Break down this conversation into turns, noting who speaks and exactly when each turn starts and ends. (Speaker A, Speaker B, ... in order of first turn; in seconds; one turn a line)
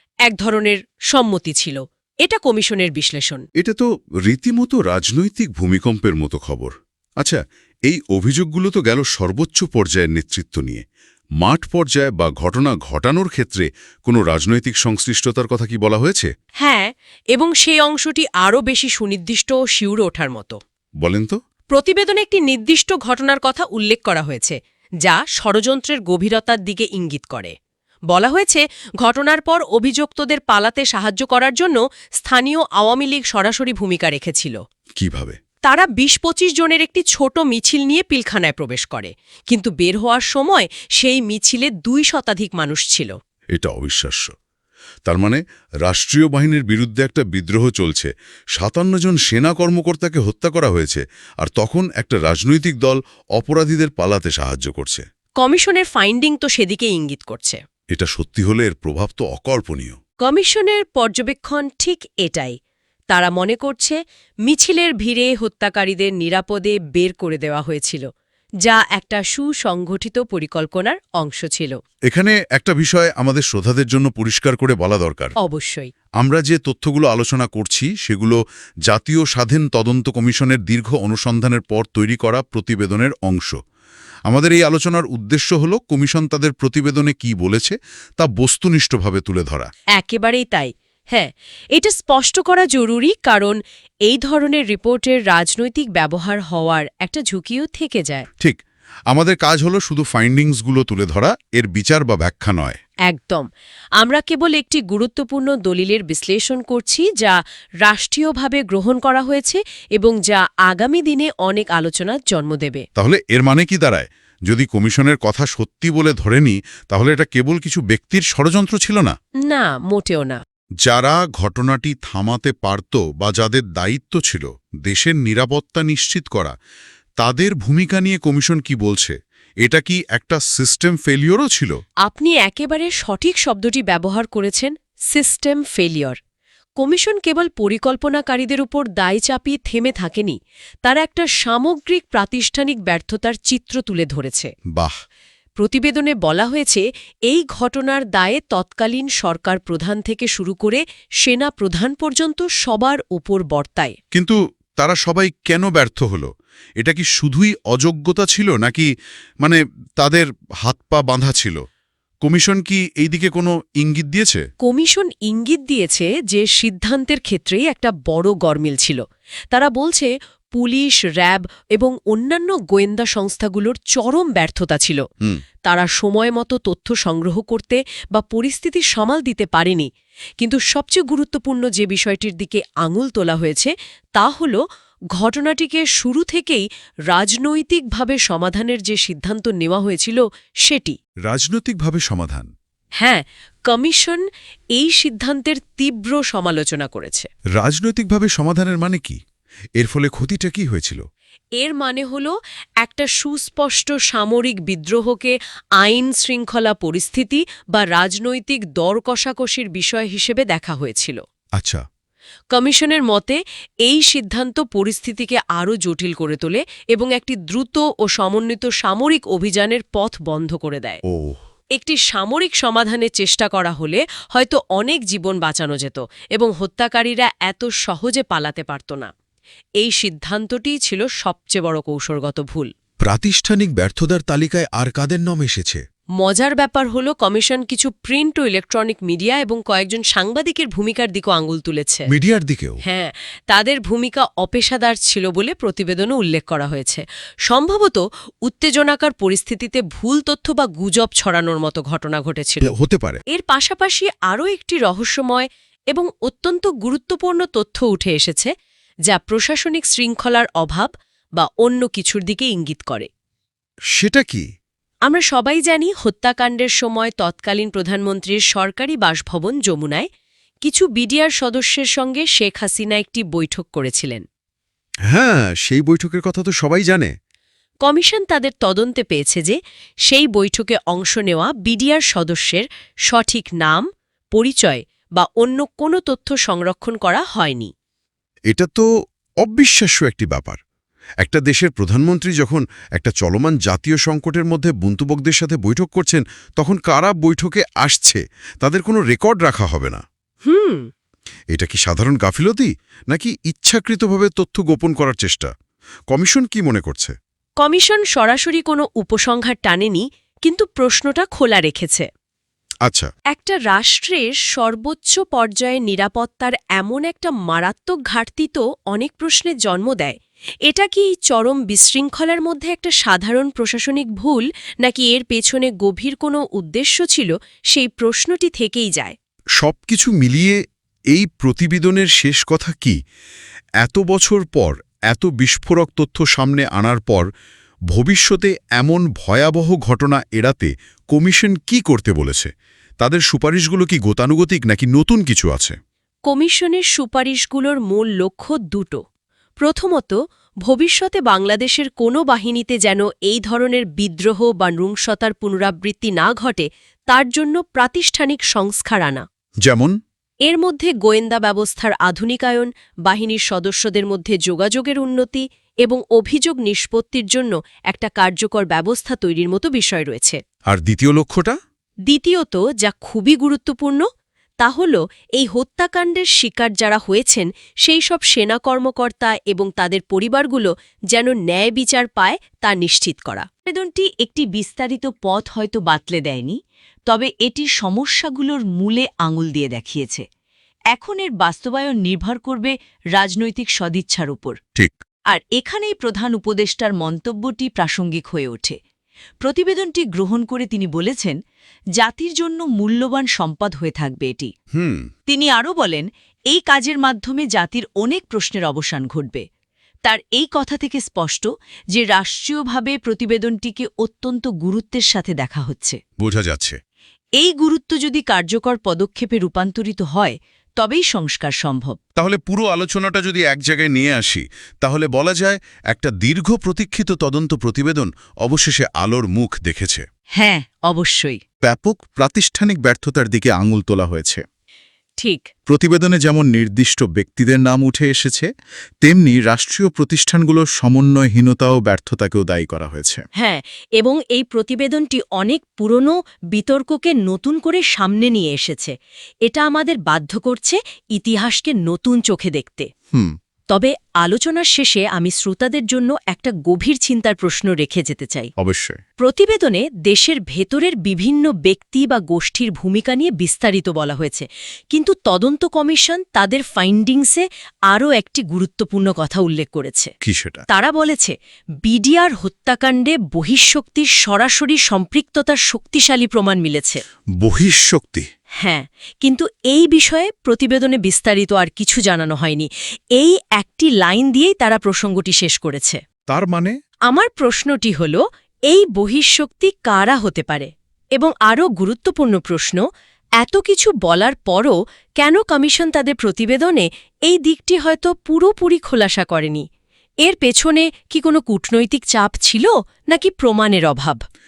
Speaker A: 0.2-3.5
Speaker B: 3.6-10.8
Speaker B: 11.4-16.3
Speaker A: 16.6-20.6
Speaker B: 21.0-21.4
Speaker A: 21.7-27.5
Speaker A: 28.1-34.6
Speaker B: 35.0-35.4
Speaker A: 35.6-43.1
Speaker B: 43.5-44.3
Speaker B: 45.0-55.0
Speaker A: 55.4-57.6
Speaker B: 57.9-60.0
Speaker A: 60.2-62.5
Speaker A: 63.1-68.1
Speaker A: 68.6-71.8
Speaker B: 72.1-75.3
Speaker A: 75.4-75.9
Speaker B: 76.2-83.6
Speaker B: 84.3-89.7
Speaker A: 90.0-98.3
Speaker B: 99.1-102.8
Speaker A: 103.1-103.5
Speaker A: 104.0-112.8
Speaker B: 113.0-119.1
Speaker A: 119.4-120.4
Speaker B: 120.8-126.5
Speaker B: 127.2-131.8
Speaker A: 132.0-136.2
Speaker A: 136.8-144.5
Speaker A: 145.6-153.9
Speaker B: 154.1-158.9
Speaker B: 159.4-161.6
Speaker B: 162.2-164.4
Speaker A: 164.6-175.0
Speaker A: 175.6-184.6
Speaker A: 185.1-191.0
Speaker B: 191.3-192.5
Speaker A: 193.0-194.2
Speaker A: 194.8-197.3
Speaker B: 197.6-199.2
Speaker B: 199.8-201.0
Speaker A: 201.6-211.2
Speaker B: 211.6-211.8
Speaker A: 212.5-221.0
Speaker B: 221.1-221.4
Speaker A: 221.8-229.1
Speaker A: 229.8-232.7
Speaker B: 233.1-235.8
Speaker A: 236.2-242.1
Speaker B: 242.1-242.8
Speaker A: 242.8-252.7
Speaker B: 252.6-253.2
Speaker A: 253.3-258.5
Speaker A: 259.1-263.1
Speaker B: 263.9-264.5
Speaker A: 265.1-270.1
Speaker A: 270.6-274.2
Speaker B: 275.1-277.1
Speaker A: 277.8-287.7
Speaker B: 288.5-288.9
Speaker B: 289.4-290.6
Speaker B: 291.2-300.0
Speaker A: 300.4-300.9
Speaker B: 301.5-305.5
Speaker B: 306.1-307.1
Speaker A: 307.6-312.1
Speaker B: 312.8-313.1
Speaker A: 313.3-329.1
Speaker B: 329.6-330.6
Speaker B: 331.1-333.0
Speaker B: 333.8-337.3
Speaker B: 337.9-345.8
Speaker A: 346.3-349.0
Speaker A: 349.6-359.2
Speaker B: 359.6-359.9
Speaker A: 360.5-370.4
Speaker B: 370.7-371.6
Speaker A: 372.1-374.1
Speaker A: 374.6-383.5
Speaker C: 383.6-390.2
Speaker C: 390.9-394.6
Speaker C: 395.3-398.8
Speaker C: 399.4-401.4
Speaker C: 401.9-404.5
Speaker B: 404.7-405.1
Speaker C: 405.3-409.4
Speaker C: 410.0-416.0
Speaker B: 416.2-416.8
Speaker C: 417.4-422.0
Speaker B: 422.2-430.0
Speaker C: 430.3-431.4
Speaker B: 431.6-434.4
Speaker A: 435.2-435.5
Speaker B: 435.7-438.5
Speaker B: 439.0-443.2
Speaker A: 443.4-448.9
Speaker A: 449.4-452.9
Speaker A: 453.7-458.5
Speaker B: 458.6-459.0
Speaker A: 459.2-470.1
Speaker B: 470.2-470.6
Speaker A: 470.7-477.0
Speaker B: 477.4-478.3
Speaker A: 478.6-486.0
Speaker B: 486.3-486.8
Speaker A: 487.1-492.8
Speaker A: 493.4-499.6
Speaker A: 500.2-504.2